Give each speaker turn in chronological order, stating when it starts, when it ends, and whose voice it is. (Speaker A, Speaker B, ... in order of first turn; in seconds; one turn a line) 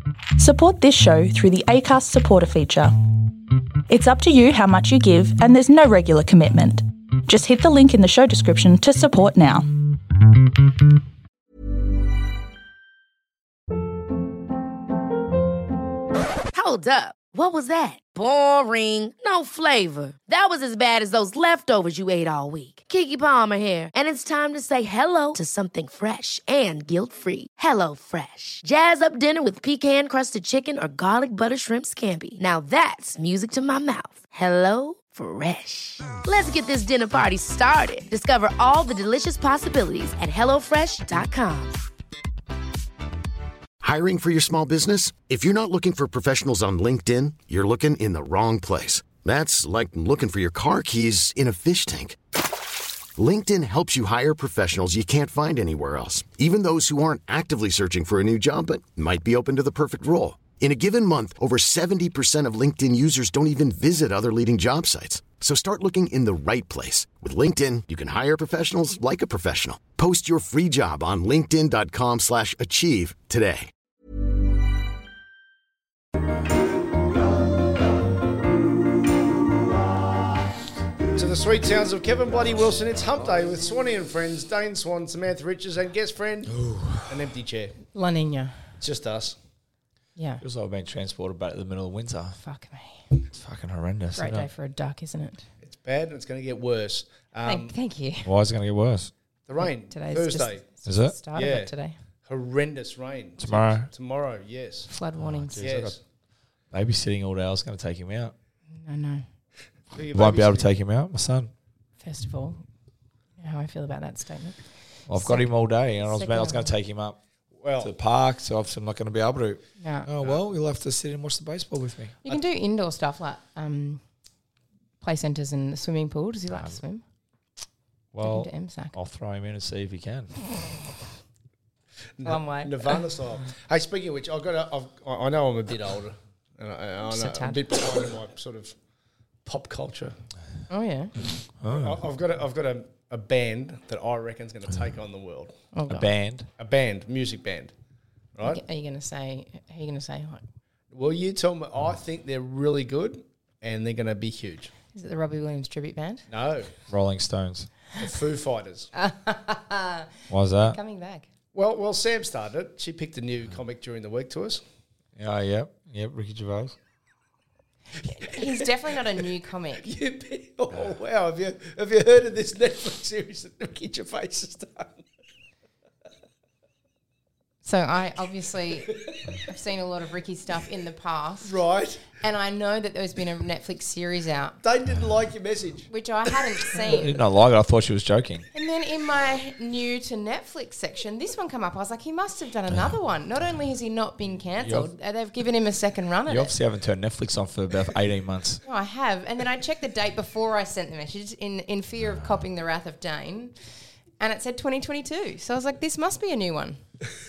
Speaker A: 0.4-3.3
Speaker A: 3.9-9.7
Speaker B: 16.5-41.8
Speaker C: 43.8-52.2
Speaker C: 53.2-73.7
Speaker D: 81.2-87.8
Speaker E: 86.5-87.1
Speaker F: 87.9-88.6
Speaker D: 88.8-89.4
Speaker F: 90.2-90.4
Speaker E: 90.4-92.4
Speaker F: 92.4-93.0
Speaker E: 93.3-94.5
Speaker F: 94.2-95.5
Speaker D: 95.6-97.7
Speaker F: 97.4-98.3
Speaker E: 98.2-99.1
Speaker D: 99.5-100.6
Speaker F: 99.6-101.9
Speaker E: 100.8-101.1
Speaker D: 101.3-101.7
Speaker D: 102.2-104.9
Speaker E: 103.4-103.9
Speaker F: 104.9-105.6
Speaker E: 105.2-106.0
Speaker D: 105.5-106.0
Speaker E: 106.7-108.3
Speaker F: 108.8-109.2
Speaker D: 109.9-110.7
Speaker E: 110.1-111.5
Speaker F: 112.0-112.6
Speaker F: 113.4-116.7
Speaker E: 115.1-117.2
Speaker D: 117.6-117.9
Speaker E: 117.8-122.2
Speaker F: 119.8-120.1
Speaker F: 122.2-124.0
Speaker F: 125.0-127.0
Speaker E: 128.1-130.3
Speaker F: 128.2-128.9
Speaker D: 132.2-138.7
Speaker F: 132.2-133.0
Speaker F: 137.1-137.6
Speaker D: 139.4-140.2
Speaker F: 140.7-141.1
Speaker E: 141.6-142.0
Speaker D: 141.6-145.5
Speaker F: 145.7-146.1
Speaker E: 145.9-146.5
Speaker D: 146.6-147.7
Speaker D: 148.3-148.6
Speaker F: 148.4-150.4
Speaker D: 150.9-154.7
Speaker F: 154.9-156.2
Speaker D: 156.3-156.7
Speaker E: 156.9-157.7
Speaker D: 158.0-158.9
Speaker F: 158.9-161.3
Speaker E: 160.3-160.8
Speaker D: 161.5-164.6
Speaker E: 165.2-166.8
Speaker F: 168.0-169.9
Speaker D: 169.8-175.0
Speaker F: 177.6-181.6
Speaker D: 181.4-182.0
Speaker F: 182.1-184.6
Speaker D: 184.6-185.9
Speaker F: 185.9-187.1
Speaker E: 186.8-188.4
Speaker F: 188.5-196.5
Speaker E: 194.6-194.9
Speaker E: 196.3-198.6
Speaker F: 198.6-203.5
Speaker F: 204.2-206.8